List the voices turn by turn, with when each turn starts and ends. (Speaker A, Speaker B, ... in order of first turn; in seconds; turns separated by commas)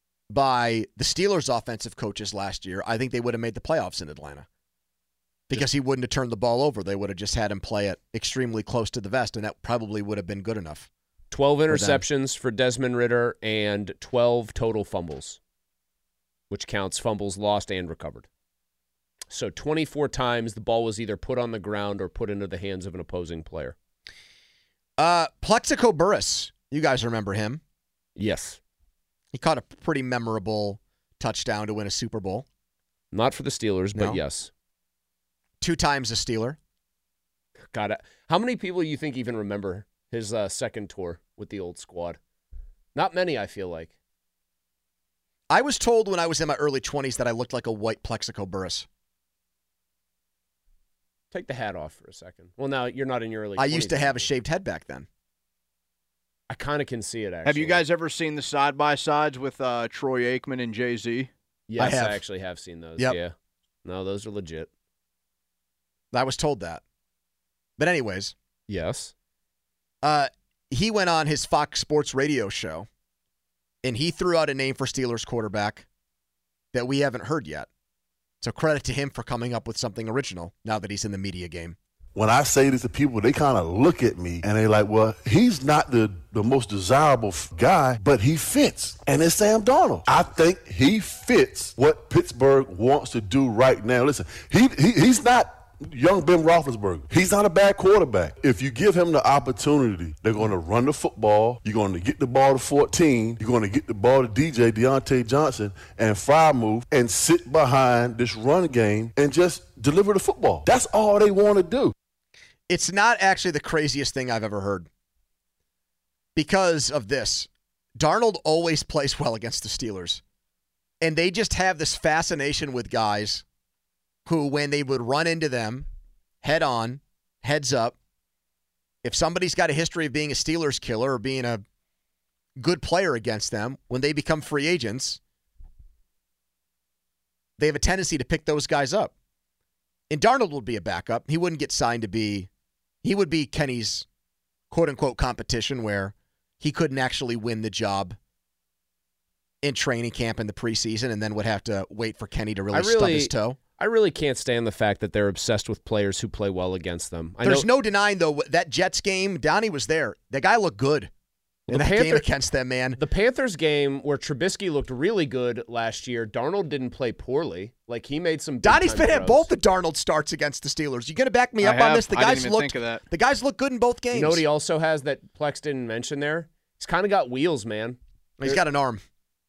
Speaker A: 0.3-4.5, Speaker A: 5.5-10.9, Speaker B: 11.3-15.4, Speaker A: 11.7-12.0, Speaker B: 16.5-18.3, Speaker B: 19.3-23.7, Speaker A: 25.0-27.6, Speaker B: 28.2-28.6, Speaker A: 29.3-32.4, Speaker B: 33.1-34.5, Speaker A: 35.6-36.6, Speaker B: 37.7-42.2, Speaker B: 42.9-43.9, Speaker A: 45.5-48.9, Speaker B: 51.3-54.3, Speaker A: 53.6-55.1, Speaker B: 56.5-57.8, Speaker C: 57.4-61.3, Speaker B: 61.7-63.3, Speaker A: 61.8-62.2, Speaker B: 63.8-64.7, Speaker A: 66.1-66.8, Speaker A: 67.8-68.3, Speaker B: 68.7-69.1, Speaker A: 70.0-72.9, Speaker A: 73.8-75.8, Speaker A: 76.7-77.7, Speaker A: 78.4-81.8, Speaker D: 82.1-111.9, Speaker A: 112.7-114.9, Speaker A: 116.3-120.2, Speaker A: 121.0-123.4, Speaker A: 124.2-125.9, Speaker A: 126.4-128.0, Speaker A: 129.0-131.6, Speaker A: 132.6-135.2, Speaker A: 137.6-139.1, Speaker A: 140.1-142.5, Speaker A: 143.0-144.1, Speaker A: 144.7-148.2, Speaker A: 149.6-153.6, Speaker B: 152.7-157.7, Speaker A: 157.4-161.1, Speaker B: 161.7-162.3, Speaker A: 161.7-163.0, Speaker B: 163.0-169.5, Speaker A: 168.6-174.4, Speaker C: 171.6-173.0, Speaker B: 174.1-178.6, Speaker A: 178.4-179.0